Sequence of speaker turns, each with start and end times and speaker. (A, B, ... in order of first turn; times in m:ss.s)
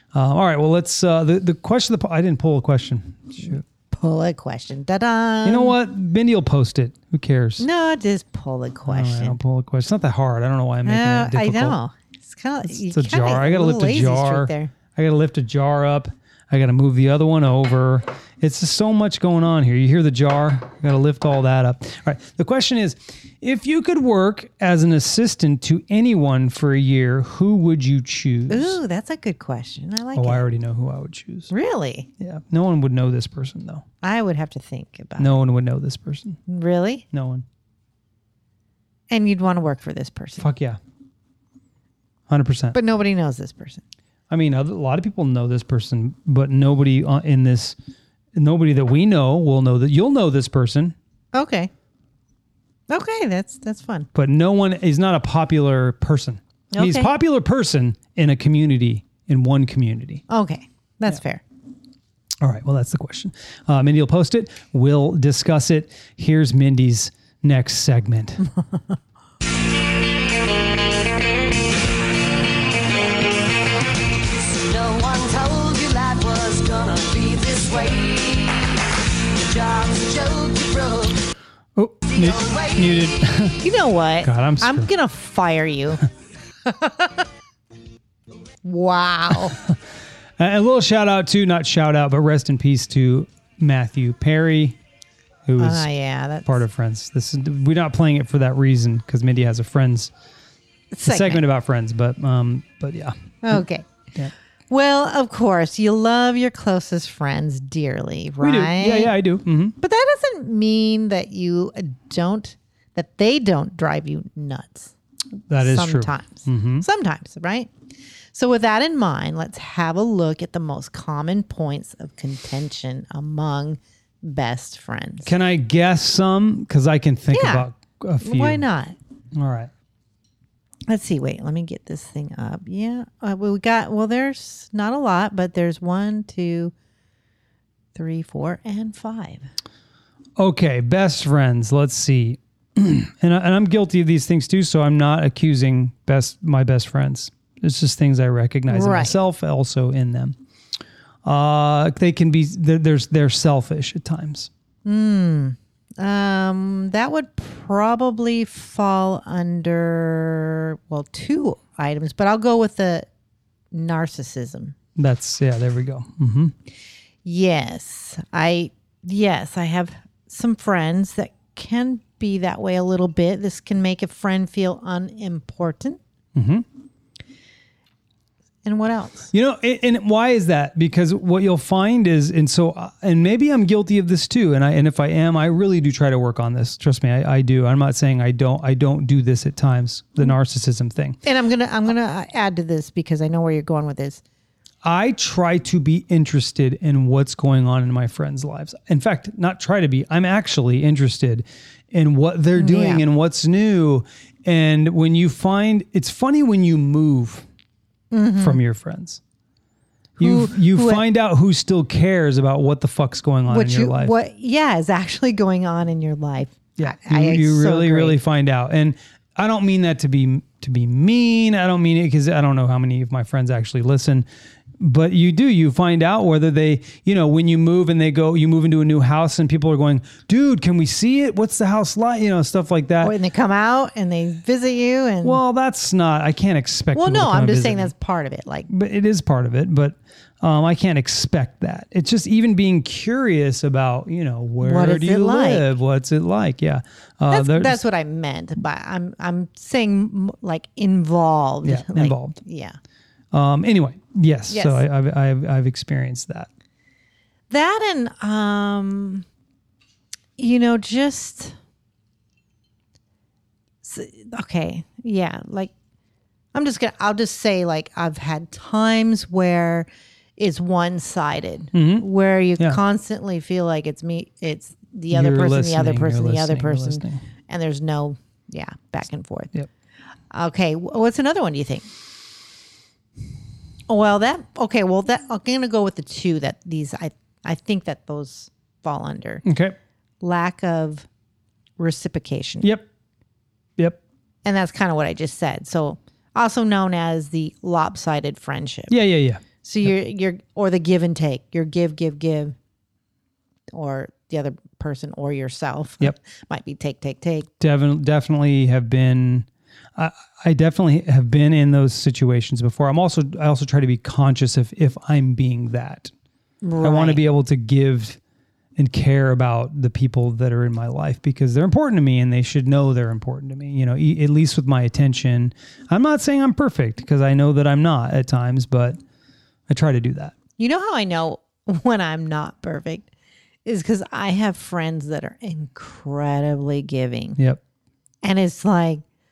0:00.1-0:03.6 A
0:03.9-0:05.8 B
0:05.4-0:07.6 A
0:07.6-0:09.4 B
0:08.9-0:11.8 A
0:10.8-0:14.7 B
0:12.6-0:28.8 A
0:28.5-0:30.4 B
0:30.1-0:31.5 A
0:31.5-0:32.1 B
0:32.2-0:33.8 A
0:34.0-0:35.4 B
0:35.2-0:36.4 A
0:36.5-0:37.0 B
0:37.1-0:37.4 A
0:39.1-0:40.5 B
0:40.4-0:40.8 A
0:42.3-0:42.8 A
0:42.7-0:43.8 B
0:44.3-0:47.8 A
0:48.3-0:50.9 A
0:51.3-0:51.7 B
0:52.9-0:54.1 B
0:54.1-1:00.2 A
0:56.7-0:57.1 B
1:00.3-1:01.4 B
1:02.4-1:08.4 A
1:14.3-1:21.3 C
1:21.8-1:23.6 A
1:22.0-1:22.9 C
1:23.6-1:26.0 B
1:24.2-1:24.9 A
1:26.6-1:27.2 B
1:28.6-1:29.6 B
1:30.4-1:34.8 A
1:35.5-1:35.9 A
1:35.6-1:36.6 B
1:36.4-1:40.1 A
1:40.9-1:41.4 B
1:41.0-1:43.6 A
1:43.4-1:43.9 B
1:44.7-1:49.1 B
1:48.4-1:49.7 A
1:49.8-1:54.9 B
1:55.5-1:56.8 A
1:55.6-1:57.7 B
1:58.3-2:05.3 B
2:05.2-2:08.6 A
2:07.3-2:07.7 B
2:08.2-2:09.0 B
2:09.3-2:09.7 A
2:10.9-2:16.7 B
2:17.9-2:19.5 B
2:20.4-2:30.4 A
2:28.7-2:29.2 B
2:31.2-2:34.5 A
2:34.8-2:43.1 B
2:43.7-2:44.7 B
2:45.0-2:46.5 A
2:47.2-2:56.0 B
2:56.3-2:56.6 A
2:58.6-2:59.3 B
2:59.3-3:11.2 A
3:11.2-3:14.2 B
3:14.8-3:27.4 A
3:22.6-3:23.0 B
3:28.1-3:28.6 B
3:28.4-3:29.2 A
3:30.2-3:34.1 A
3:30.2-3:31.0 B
3:33.5-3:38.2 B
3:36.8-3:44.2 A
3:44.8-3:53.1 A
3:53.0-3:55.4 B
3:55.2-3:57.9 A
3:56.9-3:58.7 B
3:58.7-4:07.8 A
4:04.6-4:05.7 B
4:07.3-4:12.8 B
4:11.6-4:12.4 A
4:13.3-4:16.5 A
4:14.5-4:14.8 B
4:17.5-4:19.2 B
4:20.4-4:21.6 B
4:23.8-4:25.7 B
4:26.5-4:39.5 B
4:31.7-4:32.0 A
4:35.1-4:37.2 A
4:40.3-4:41.9 B
4:43.9-4:49.4 B
4:49.4-4:49.8 A
4:50.2-4:51.1 B
4:51.8-4:52.7 B
4:52.6-4:52.8 A
4:54.4-4:58.9 B
4:58.9-4:59.4 A
4:59.6-5:02.6 B
5:03.7-5:07.5 B
5:07.6-5:16.1 A
5:16.6-5:17.2 B
5:16.8-5:18.2 A
5:18.8-5:29.0 A
5:29.7-5:30.3 A
5:30.6-5:33.1 B
5:33.6-5:37.4 B
5:38.2-5:39.0 B